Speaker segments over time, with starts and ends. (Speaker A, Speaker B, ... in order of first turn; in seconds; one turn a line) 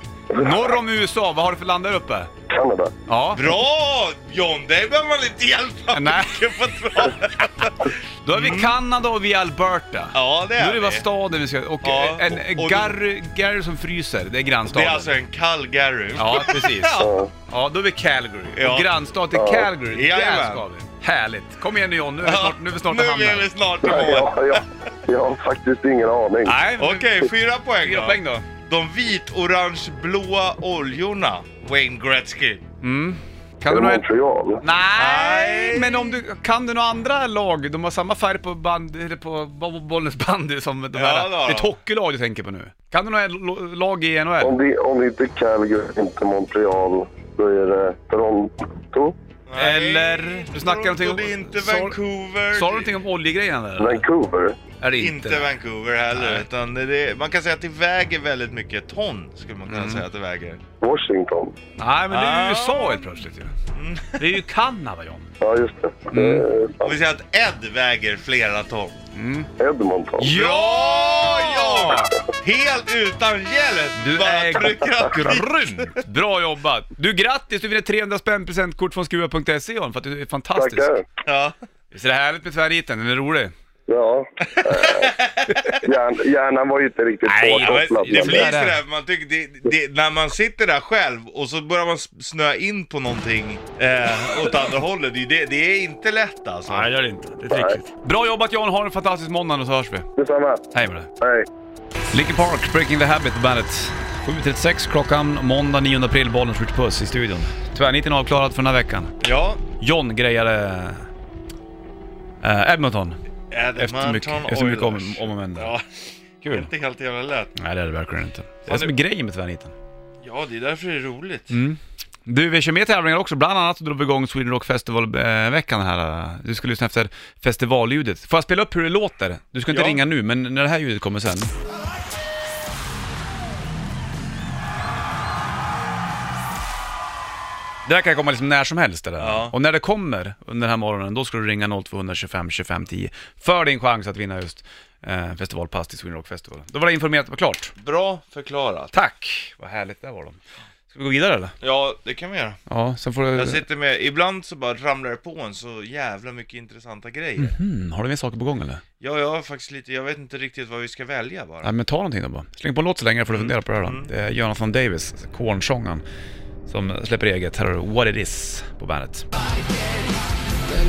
Speaker A: 0.3-0.7
Speaker B: 0.3-2.3
Speaker A: 2.5-2.9
Speaker B: 3.1-3.5
Speaker C: 3.3-8.8
Speaker B: 5.9-6.5
Speaker B: 8.2-15.1
Speaker C: 10.1-11.1
Speaker C: 11.8-13.0
Speaker C: 14.7-17.1
Speaker B: 16.2-23.5
Speaker A: 17.0-17.3
Speaker C: 18.5-18.9
Speaker A: 19.3-19.7
Speaker C: 19.9-20.6
Speaker C: 22.2-24.6
Speaker A: 23.8-26.6
Speaker B: 26.4-27.1
Speaker C: 26.8-32.6
Speaker B: 27.8-28.5
Speaker B: 32.8-34.0
Speaker A: 33.7-34.6
Speaker B: 34.6-44.6
Speaker C: 35.0-36.2
Speaker C: 40.9-41.8
Speaker A: 44.4-49.2
Speaker C: 49.5-53.0
Speaker B: 49.6-52.0
Speaker B: 52.5-54.0
Speaker A: 53.8-54.6
Speaker B: 54.8-55.5
Speaker C: 54.9-60.6
Speaker B: 56.1-56.5
Speaker B: 59.7-60.0
Speaker A: 60.8-61.5
Speaker B: 61.8-63.5
Speaker C: 62.1-63.1
Speaker C: 63.7-64.4
Speaker B: 64.2-65.3
Speaker A: 65.4-67.0
Speaker B: 66.1-66.5
Speaker C: 66.8-69.0
Speaker B: 69.1-69.5
Speaker A: 69.6-70.3
Speaker B: 70.2-72.2
Speaker C: 70.3-76.0
Speaker B: 74.0-80.9
Speaker A: 80.6-81.0
Speaker C: 81.2-81.6
Speaker B: 81.9-83.5
Speaker A: 83.9-85.2
Speaker C: 84.4-85.9
Speaker A: 85.8-88.4
Speaker B: 87.3-88.8
Speaker C: 87.6-96.9
Speaker B: 96.7-100.1
Speaker A: 97.5-97.8
Speaker A: 100.2-100.7
Speaker B: 100.7-101.1
Speaker A: 101.2-101.5
Speaker B: 102.1-109.1
Speaker C: 109.2-109.6
Speaker B: 109.8-111.1
Speaker B: 112.4-113.2
Speaker C: 113.5-117.5
Speaker B: 113.8-115.7
Speaker B: 116.4-116.7
Speaker B: 117.6-119.8
Speaker C: 118.7-118.9
Speaker C: 120.2-121.5
Speaker B: 121.5-131.5
Speaker C: 129.7-130.0
Speaker B: 137.9-147.7
Speaker C: 139.2-139.6
Speaker C: 147.8-148.9
Speaker B: 148.9-151.6
Speaker C: 151.6-152.6
Speaker B: 152.7-153.6
Speaker C: 153.3-157.6
Speaker B: 157.4-158.8
Speaker C: 159.0-161.7
Speaker B: 161.6-166.0
Speaker C: 163.3-164.1
Speaker B: 166.7-169.3